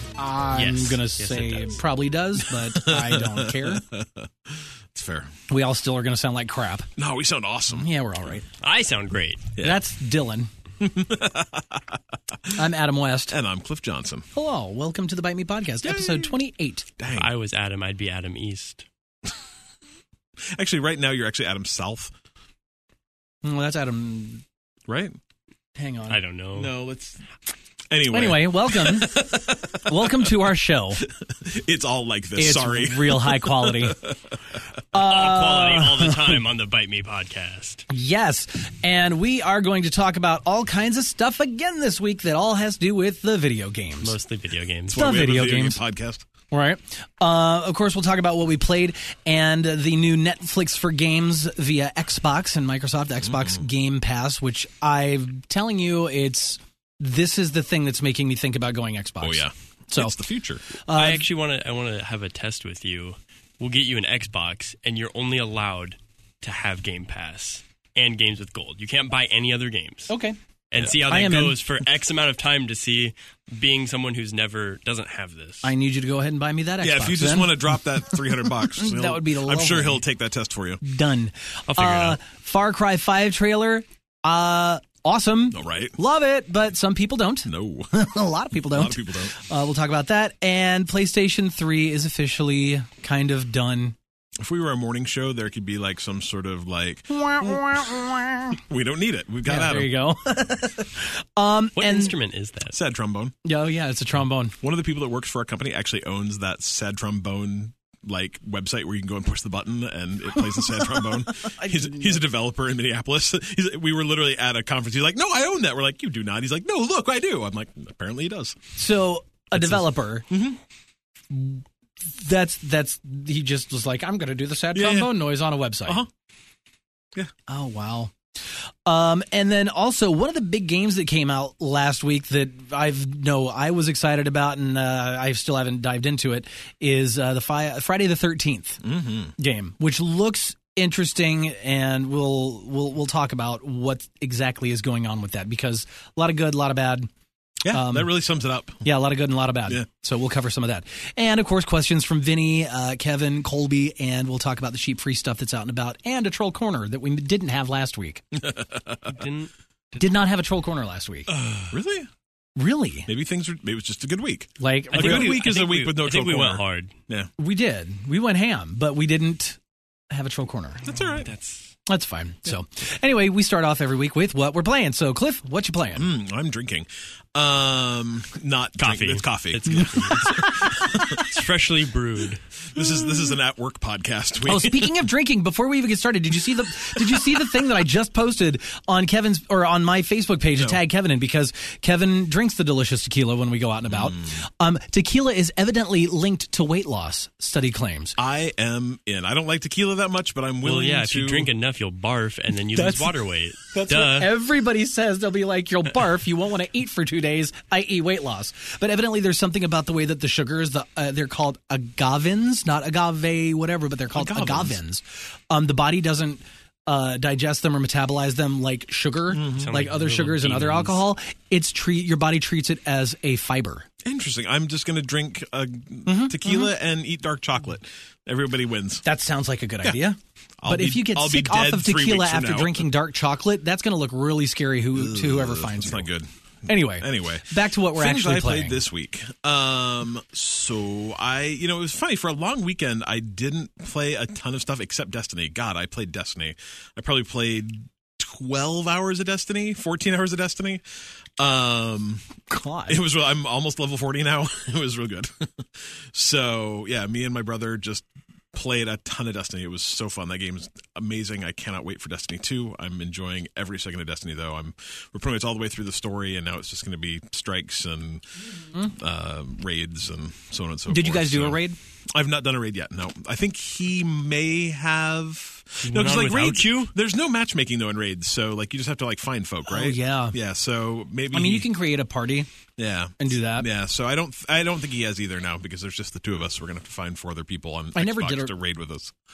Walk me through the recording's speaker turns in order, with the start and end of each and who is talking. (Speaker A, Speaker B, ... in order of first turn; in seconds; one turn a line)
Speaker A: 0.2-3.8
Speaker B: 0.5-1.8
Speaker C: 2.5-5.3
Speaker A: 5.5-6.9
Speaker C: 7.0-7.9
Speaker A: 7.7-8.5
Speaker B: 8.6-9.5
Speaker A: 9.6-10.5
Speaker C: 10.8-12.5
Speaker A: 12.5-13.3
Speaker C: 13.3-14.3
Speaker A: 14.3-16.9
Speaker C: 15.8-16.3
Speaker C: 17.0-17.3
Speaker B: 17.1-18.9
Speaker C: 20.5-22.1
Speaker A: 23.4-24.4
Speaker C: 24.9-25.1
Speaker A: 25.8-26.2
Speaker B: 26.1-26.7
Speaker C: 26.5-27.2
Speaker C: 27.9-30.3
Speaker A: 28.1-31.0
Speaker C: 31.0-34.4
Speaker A: 32.4-34.0
Speaker A: 34.9-36.4
Speaker B: 34.9-37.9
Speaker A: 37.9-44.2
Speaker B: 44.0-45.0
Speaker C: 44.9-46.2
Speaker A: 44.9-45.8
Speaker A: 46.5-60.2
Speaker C: 53.2-53.6
Speaker C: 59.2-60.6
Speaker A: 60.7-61.2
Speaker B: 60.9-70.1
Speaker A: 70.1-70.4
Speaker B: 70.7-75.7
Speaker A: 71.0-71.5
Speaker A: 75.6-77.6
Speaker C: 76.8-80.8
Speaker A: 78.1-80.0
Speaker A: 80.8-94.0
Speaker B: 81.7-82.2
Speaker C: 85.5-85.9
Speaker C: 87.5-87.9
Speaker C: 88.7-89.3
Speaker C: 94.4-97.7
Speaker A: 97.1-98.6
Speaker C: 98.6-99.9
Speaker A: 99.5-102.1
Speaker B: 101.8-102.8
Speaker C: 102.7-103.3
Speaker A: 103.4-104.5
Speaker C: 104.6-118.7
Speaker A: 110.8-112.2
Speaker A: 118.8-120.2
Speaker C: 119.5-120.6
Speaker A: 121.3-126.0
Speaker C: 124.7-125.1
Speaker A: 127.5-128.1
Speaker A: 128.8-138.8
Speaker C: 138.8-139.3
Speaker A: 139.4-147.1
Speaker C: 147.6-148.8
Speaker A: 147.7-148.1
Speaker A: 148.8-158.2
Speaker C: 158.3-159.1
Speaker B: 159.0-160.1
Speaker A: 160.0-161.3
Speaker C: 161.7-162.1
Speaker A: 162.6-163.1
Speaker C: 163.1-167.3
Speaker A: 164.6-165.4
Speaker B: 164.9-166.9
Speaker A: 167.4-169.6
Speaker A: 170.1-170.9
Speaker C: 170.8-171.3
Speaker B: 171.0-171.7
Speaker A: 171.9-176.1
Speaker C: 175.9-181.3
Speaker B: 178.8-182.4
Speaker A: 179.7-181.3
Speaker C: 182.7-184.9
Speaker A: 184.4-198.2
Speaker C: 186.5-187.4
Speaker C: 193.9-194.4
Speaker C: 198.2-201.5
Speaker B: 200.6-204.3
Speaker A: 202.7-223.9
Speaker C: 214.1-214.8
Speaker C: 219.3-219.7
Speaker B: 219.5-221.1
Speaker C: 224.0-229.0
Speaker A: 226.1-226.7
Speaker A: 229.0-236.1
Speaker C: 230.6-232.8
Speaker C: 234.9-250.8
Speaker A: 236.7-238.8
Speaker C: 251.4-252.2
Speaker A: 252.5-253.0
Speaker C: 252.9-281.7
Speaker A: 270.9-271.8
Speaker B: 275.8-276.9
Speaker A: 279.7-280.4
Speaker A: 281.3-282.5
Speaker C: 282.8-289.1
Speaker A: 283.2-283.7
Speaker A: 287.9-288.5